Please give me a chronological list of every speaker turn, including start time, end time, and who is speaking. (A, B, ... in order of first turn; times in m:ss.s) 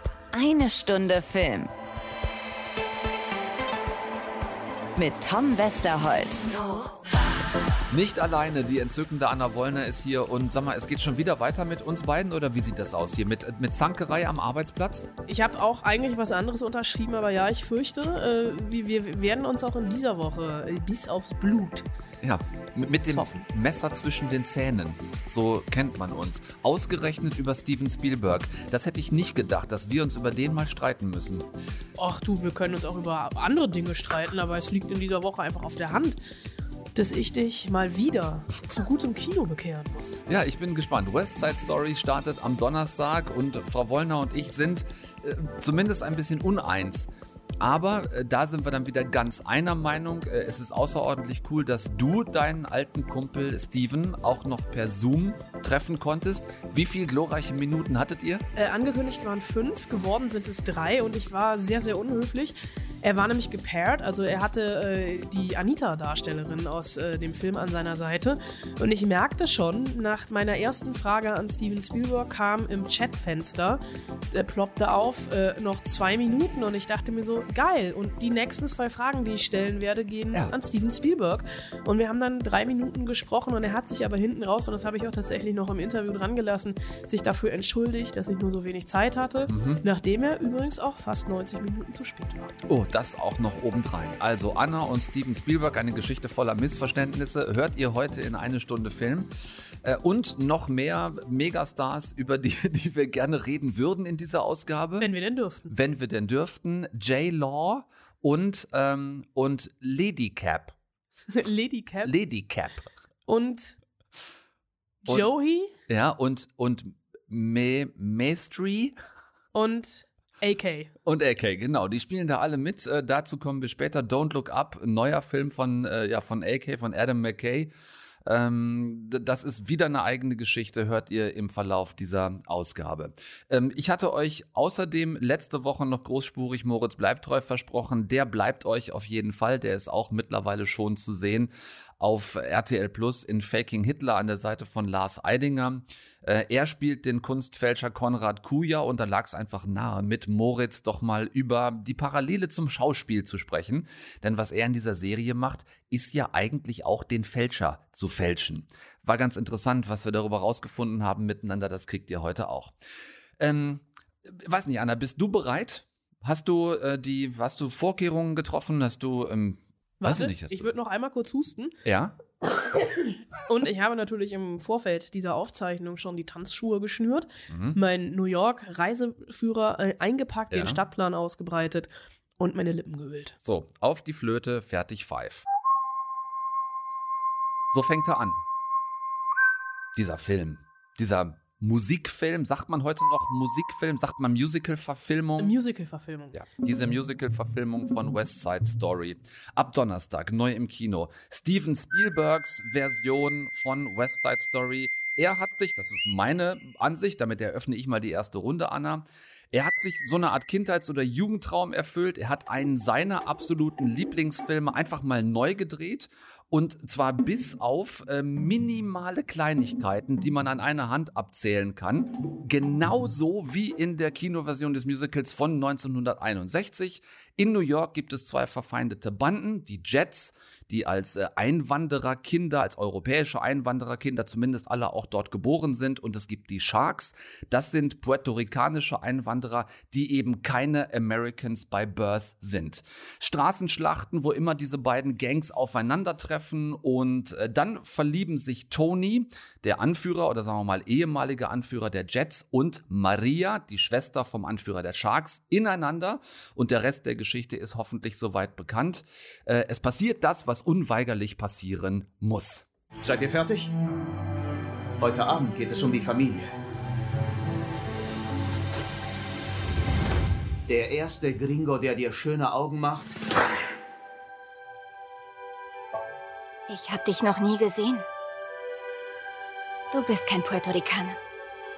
0:00.3-0:01.7 A
0:05.0-0:06.4 A
0:07.9-0:15.1 B
0:15.3-0:21.9 C
0:22.2-0:31.4 B
0:23.1-0:23.4 C
0:32.0-0:36.2 C
0:37.0-0:40.2 C
0:40.3-0:47.1 B
0:47.6-0:58.4 B
0:58.6-1:32.5 C
1:29.5-1:29.8 B
1:32.7-1:39.3 B
1:39.8-1:45.1 B
1:45.0-1:45.7 C
1:45.7-1:50.7 B
1:51.3-1:52.1 C
1:52.0-1:52.9 B
1:53.3-1:53.8 C
1:55.0-1:55.7 C
1:55.9-1:58.9 B
1:59.5-2:00.9 C
2:01.1-2:07.7 B
2:08.3-2:42.7 B
2:43.4-2:50.7 B
2:50.0-2:51.8 C
2:51.8-2:52.1 B
2:53.5-3:03.4 C
2:57.5-2:57.8 B
3:00.5-3:00.8 B
3:03.4-3:05.5 B
3:07.7-3:08.4 B
3:10.0-3:15.6 B
3:15.4-3:16.4 C
3:16.3-4:22.7 B
4:23.0-4:23.7 D
4:25.0-4:26.5 D
4:30.7-4:33.2 D
4:36.7-4:38.0 E
4:39.9-4:41.2 E